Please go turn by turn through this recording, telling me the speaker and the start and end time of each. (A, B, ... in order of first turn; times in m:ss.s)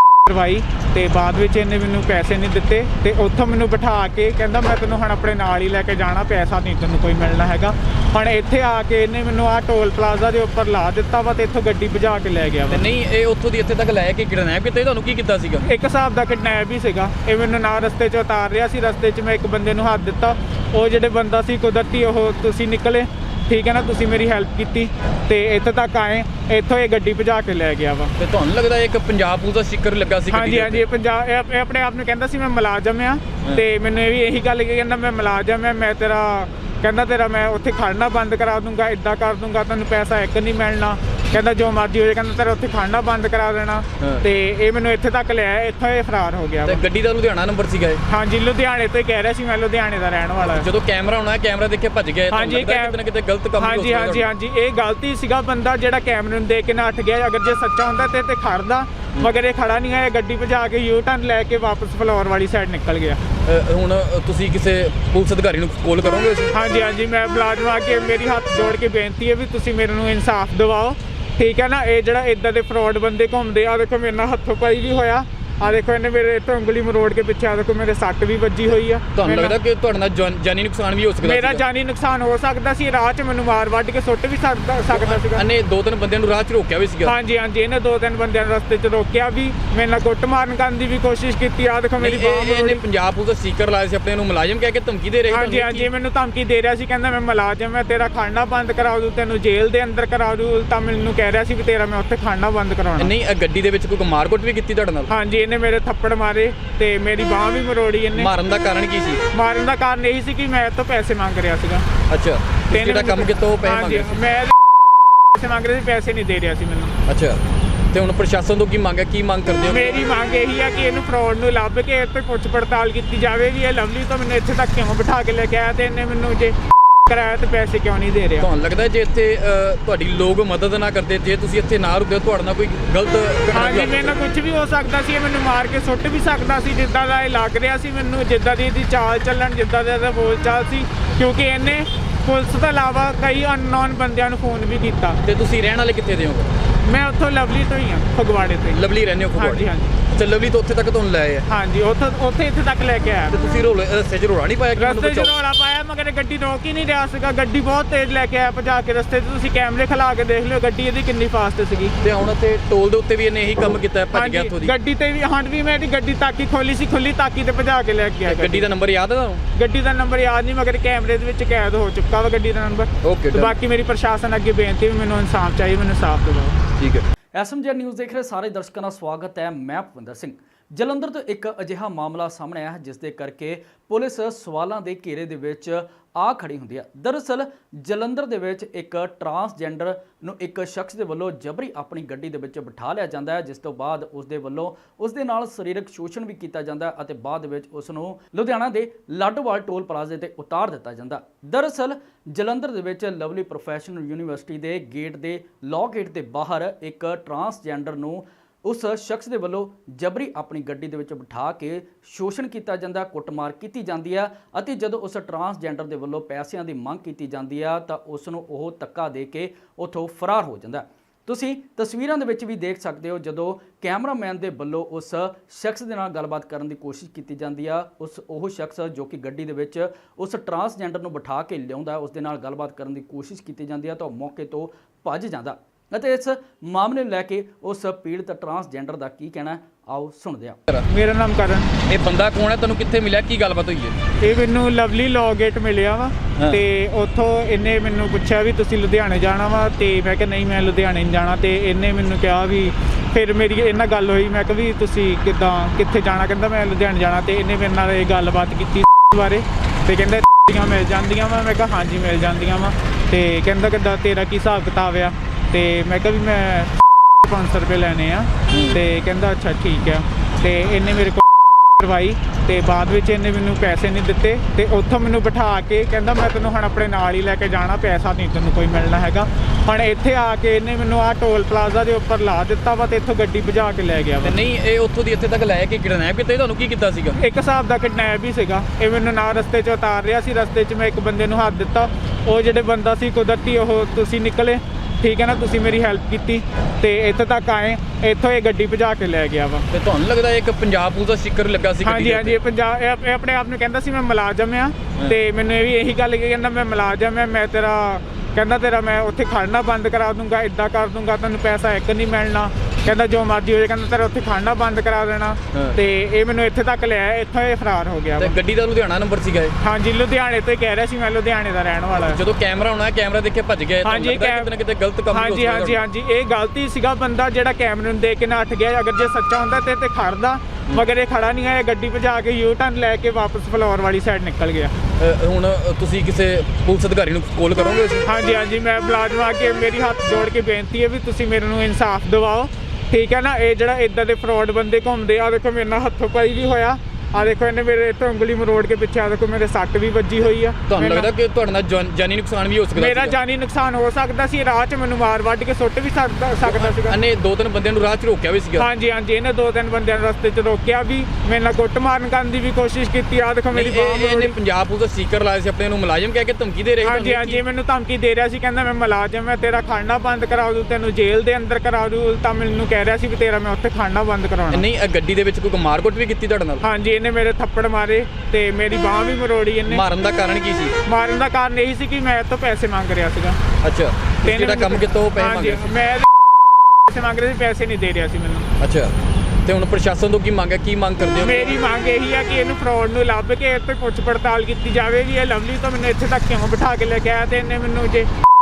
0:00.3-0:12.8 A
0:12.7-0:15.6 B
0:15.6-0:28.1 A
0:28.2-0:30.8 B
0:30.3-0:46.8 A
0:46.6-0:48.0 B
0:48.1-0:50.7 A
0:50.5-0:54.3 B
0:52.3-0:53.0 A
0:53.6-1:03.2 A
1:03.5-1:06.5 B
1:06.5-1:19.6 A
1:19.2-1:21.6 B
1:21.2-1:25.4 A
1:24.9-1:27.1 B
1:27.0-1:32.8 A
1:32.0-1:35.9 B
1:35.3-1:43.1 A
1:43.0-1:45.1 B
1:45.1-1:48.3 A
1:48.2-1:49.2 B
1:49.3-1:51.8 A
1:52.1-1:54.2 B
1:52.7-1:54.6 A
1:55.3-1:56.9 A
1:57.1-1:57.4 B
1:57.9-2:00.0 B
1:59.7-2:06.6 A
2:07.1-2:08.5 A
2:08.4-2:14.2 B
2:13.5-2:25.2 A
2:25.2-2:26.5 B
2:26.8-2:28.8 A
2:28.7-2:31.5 B
2:29.4-2:29.9 A
2:31.5-2:33.4 A
2:33.3-2:35.3 B
2:34.8-2:42.0 A
2:42.0-2:44.7 B
2:44.1-2:48.7 A
2:48.2-2:49.4 B
2:49.6-2:56.6 A
2:53.0-2:53.6 B
2:57.4-4:00.6 C
4:00.9-4:01.7 A
4:01.9-4:04.0 B
4:04.2-4:31.2 A
4:28.5-4:28.8 B
4:31.8-4:44.4 A
4:44.2-4:47.2 B
4:47.2-4:59.7 A
4:59.7-5:02.4 B
5:01.8-5:18.4 A
5:15.5-5:15.8 B
5:18.2-5:19.5 B
5:19.6-5:22.2 A
5:22.1-5:25.8 B
5:23.8-5:24.5 A
5:25.1-5:34.7 A
5:35.0-5:38.1 B
5:38.1-5:51.1 A
5:50.7-5:53.2 B
5:52.8-5:57.0 A
5:56.4-5:58.7 B
5:58.6-6:04.3 A
6:03.5-6:07.4 B
6:06.8-6:14.6 A
6:14.5-6:16.6 B
6:16.6-6:19.8 A
6:19.7-6:20.7 B
6:20.9-6:23.4 A
6:23.6-6:25.7 B
6:24.2-6:26.1 A
6:26.9-6:28.5 A
6:28.6-6:28.9 B
6:29.5-6:31.5 B
6:31.2-6:38.1 A